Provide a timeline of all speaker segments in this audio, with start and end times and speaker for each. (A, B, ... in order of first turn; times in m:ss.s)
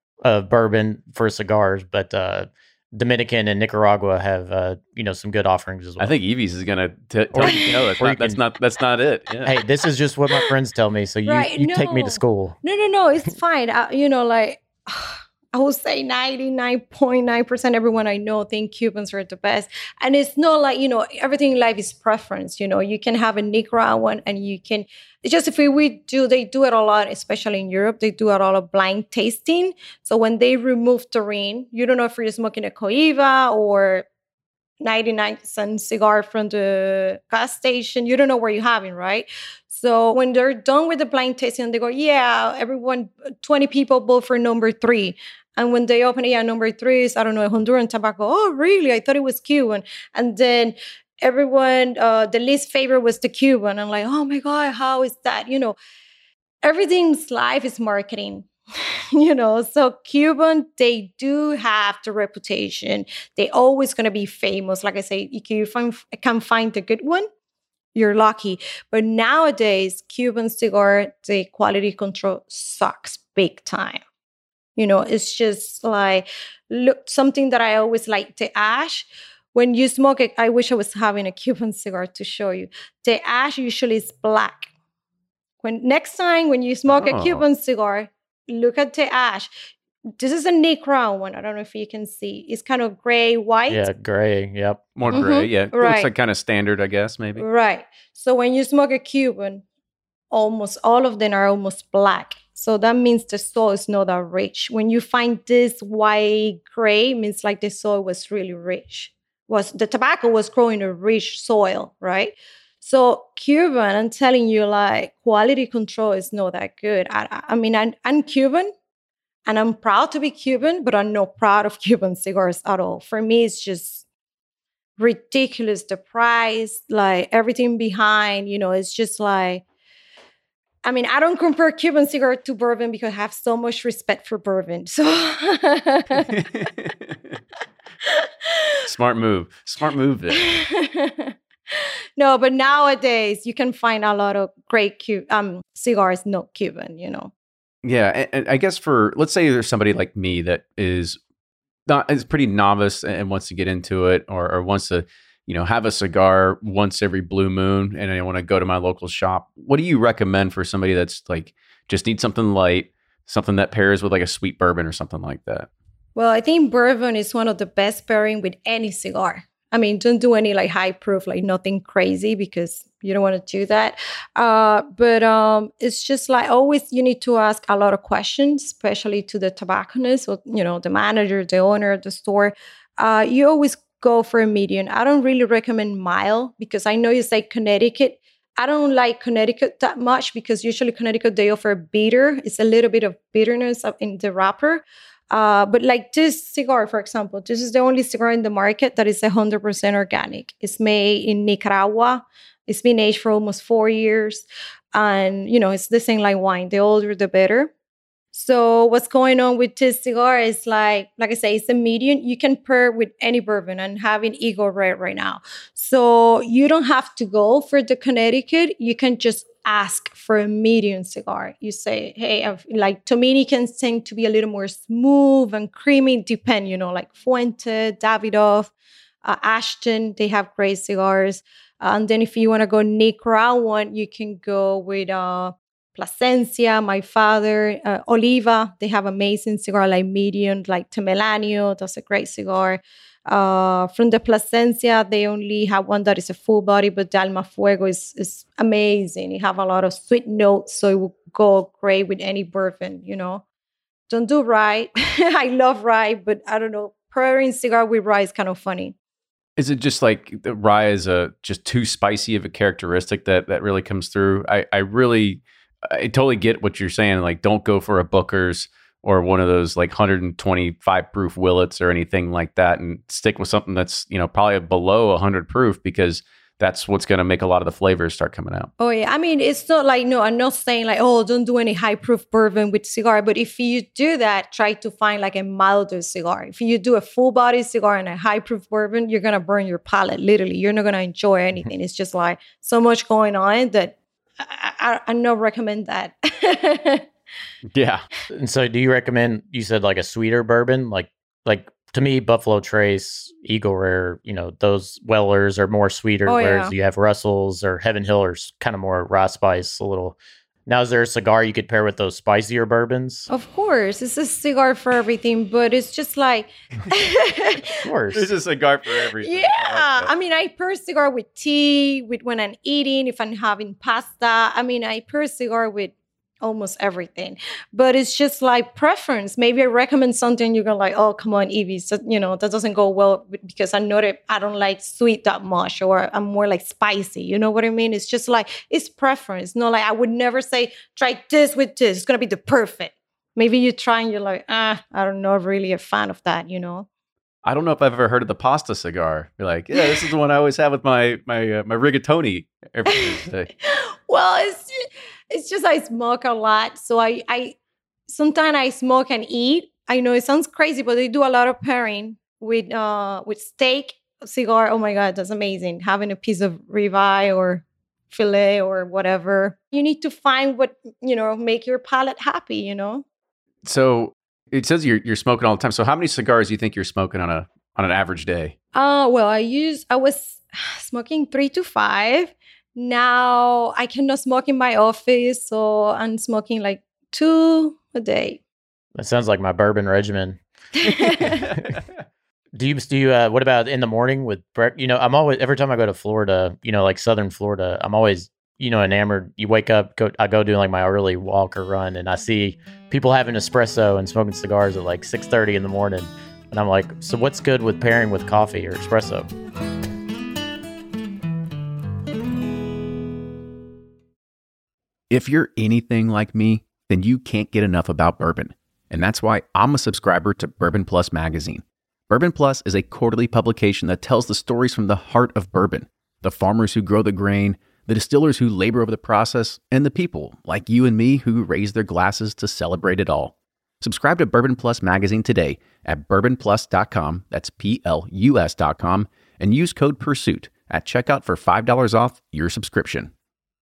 0:00.2-0:06.1 A
0:06.0-0:09.5 B
0:07.3-0:08.4 A
0:09.4-0:12.6 A
0:11.3-0:34.1 C
0:34.8-0:55.8 C
0:56.6-1:07.3 C
1:08.0-1:14.0 C
1:14.8-1:24.7 C
1:25.6-1:29.5 C
1:26.9-1:27.4 B
1:30.2-1:33.9 C
1:33.7-1:34.8 A
1:35.0-1:37.4 B
1:35.1-1:36.1 C
1:37.4-1:39.6 C
1:40.3-1:58.7 C
1:59.5-2:04.0 C
2:05.0-2:09.6 C
2:10.8-2:16.3 C
2:16.3-2:17.2 B
2:18.0-2:18.8 C
2:18.9-2:20.5 B
2:20.4-2:27.3 C
2:27.8-2:31.2 B
2:31.9-2:45.7 B
2:46.2-3:27.7 C
3:28.3-3:48.7 C
3:49.2-4:13.4 C
4:14.1-4:19.0 C
4:19.6-4:38.7 B
4:38.8-4:57.1 C
4:57.7-4:58.0 B
4:58.3-5:13.3 A
5:06.3-5:06.7 C
5:13.3-5:17.6 C
5:17.8-5:18.3 A
5:18.1-5:20.1 B
5:19.2-5:46.9 C
5:47.4-5:53.5 B
5:53.6-5:57.6 C
5:58.1-6:13.0 C
6:13.6-6:18.5 B
6:18.7-6:28.4 C
6:29.0-6:30.4 A
6:30.8-6:31.4 C
6:32.6-6:49.3 A
6:55.1-7:23.1 B